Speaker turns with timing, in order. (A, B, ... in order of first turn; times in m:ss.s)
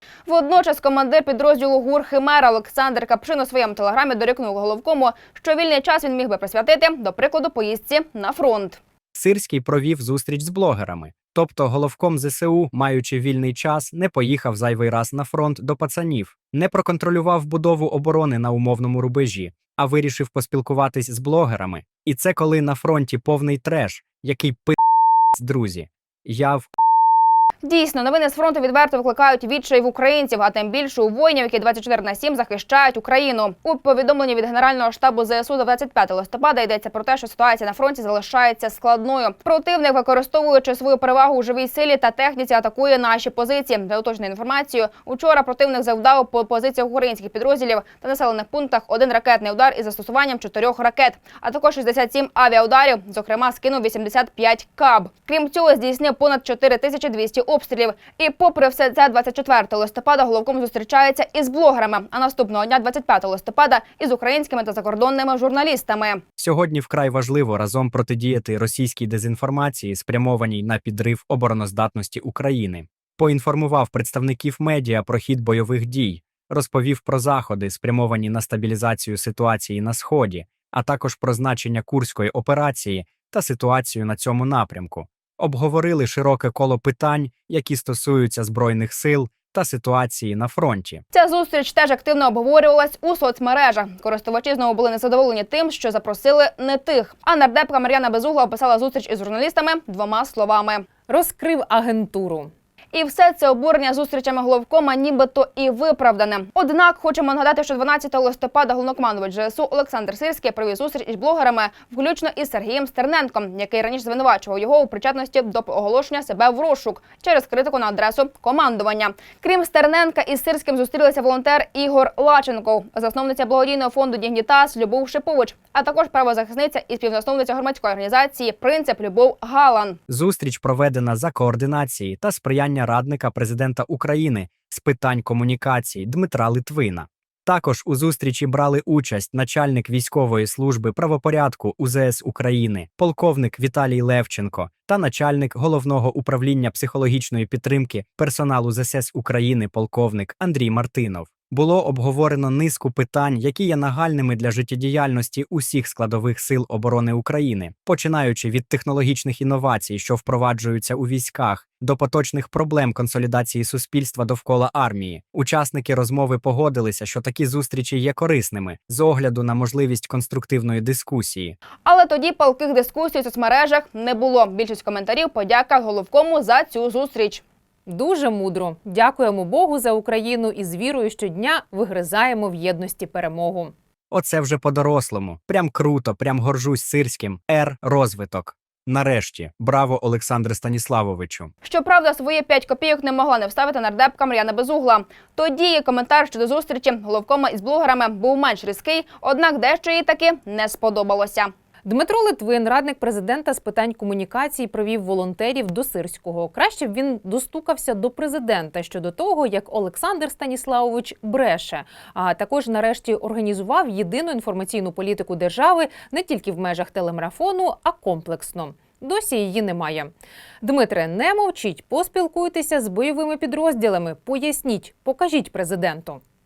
0:00.2-0:08.8 A
0:09.1-0:24.8 B
0:25.3-0:26.7 B
0:27.6-1:06.2 A
1:06.4-1:31.0 B
1:31.1-1:40.9 A
1:41.1-1:42.5 C
1:42.9-2:10.0 A
2:10.1-2:51.6 B
2:51.8-2:57.4 A
2:57.9-3:03.7 C
3:04.1-3:11.5 B
3:11.6-3:21.5 A
3:21.8-3:46.2 C